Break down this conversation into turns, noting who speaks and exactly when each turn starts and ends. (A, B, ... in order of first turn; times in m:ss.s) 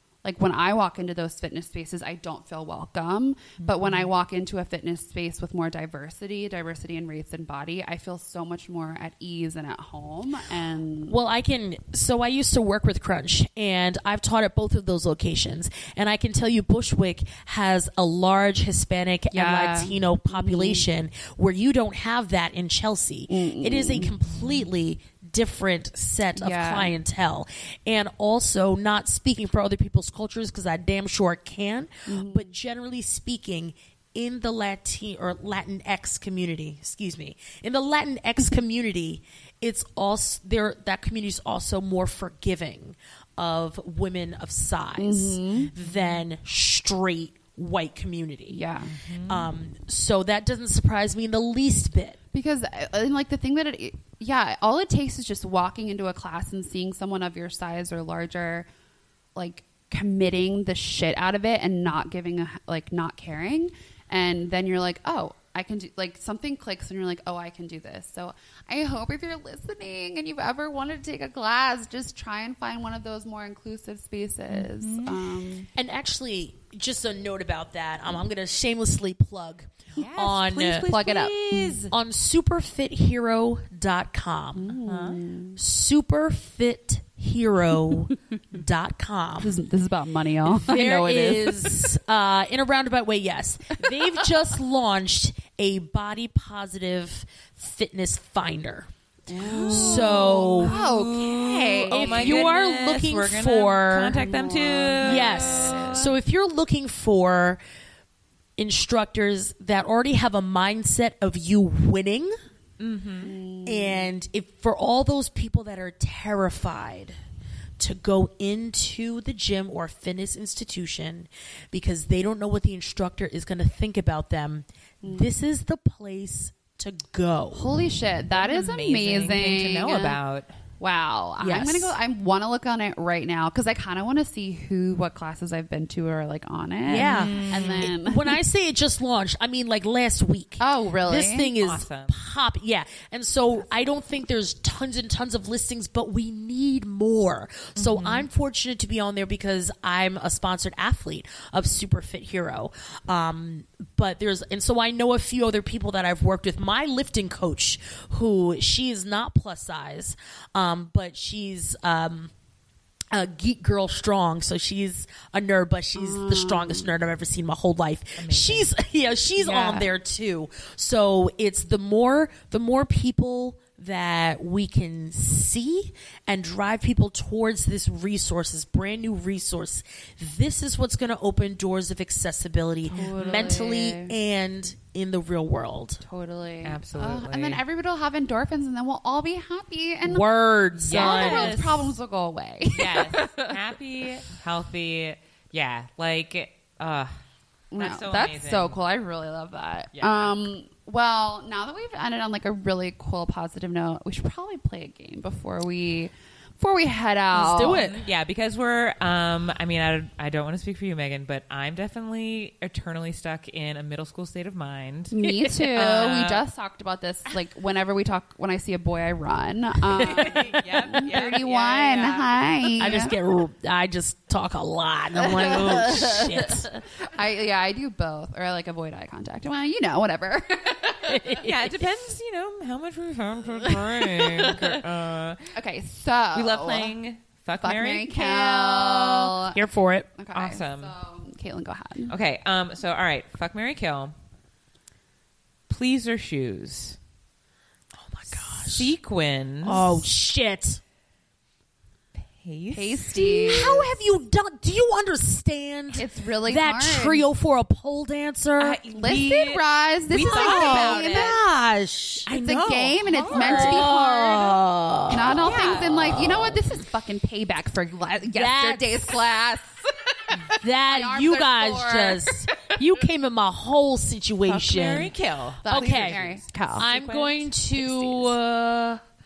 0:00.2-0:11.2 A
0:03.6-0:04.1 B
0:11.0-0:48.6 C
0:19.3-0:20.9 A
0:23.3-0:24.1 A
0:26.4-0:26.9 A
0:32.1-0:32.5 A
0:45.0-0:45.7 A
0:45.7-0:46.2 B
0:48.5-0:48.9 A
0:48.9-0:49.5 B
0:49.2-0:52.2 C
0:52.3-0:58.7 A
0:59.3-1:15.7 A
1:14.5-1:15.2 B
1:15.7-1:24.7 C
1:20.0-1:21.9 B
1:20.9-1:21.3 A
1:24.6-1:25.6 A
1:24.8-1:25.2 B
1:25.6-1:29.6 C
1:29.4-1:31.9 A
1:30.4-1:38.9 C
1:39.3-1:42.4 A
1:39.4-1:46.1 B
1:39.6-1:40.7 C
1:41.9-1:44.2 C
1:44.2-1:46.0 A
1:45.0-1:47.6 C
1:48.6-1:52.3 C
1:52.8-1:53.3 B
1:53.2-1:54.1 A
1:53.6-1:57.2 C
1:57.8-2:07.7 C
2:07.5-2:10.2 A
2:08.3-2:10.5 B
2:10.8-2:18.4 A
2:11.4-2:11.9 C
2:16.8-2:42.3 C
2:17.0-2:17.9 B
2:20.6-2:21.5 A
2:21.6-2:22.1 B
2:27.8-2:28.2 B
2:43.1-3:06.0 C
2:46.0-2:46.9 A
2:48.2-2:48.7 B
2:49.4-2:49.9 A
3:02.9-3:03.6 B
3:02.9-3:04.1 A
3:06.0-3:10.2 A
3:06.6-3:07.6 B
3:10.0-3:11.6 C
3:10.8-3:11.9 B
3:10.8-3:13.5 A
3:12.7-3:17.1 B
3:17.7-3:27.8 A
3:17.8-3:18.8 B
3:19.9-3:20.3 B
3:27.3-3:28.1 C
3:27.7-3:36.4 B
3:35.1-3:43.1 A
3:40.0-3:40.6 C
3:40.0-3:42.2 B
3:42.8-3:46.7 C
3:45.2-3:51.2 A
3:51.0-3:51.8 C
3:51.4-3:55.5 B
3:54.1-3:54.5 A
3:55.5-3:56.9 A
3:56.3-3:58.3 B
3:57.6-3:59.6 A
3:58.2-4:00.1 C
4:00.2-4:02.1 A
4:00.3-4:00.9 B
4:02.1-4:04.1 B
4:05.7-4:07.0 B
4:08.0-4:08.9 C
4:08.4-4:10.0 B
4:09.6-4:10.8 C
4:12.4-4:13.2 B
4:12.7-4:13.8 A
4:13.2-4:18.8 C
4:15.9-4:17.2 A
4:18.6-4:21.4 B
4:18.9-4:21.4 A
4:20.2-4:26.6 C
4:22.3-4:24.4 B
4:22.3-4:24.4 A
4:25.1-4:32.8 A
4:25.2-4:26.4 B
4:28.3-4:29.2 C
4:30.5-4:35.1 C
4:34.5-4:38.3 B
4:35.6-4:36.8 A
4:35.7-4:36.2 C
4:36.7-4:39.0 C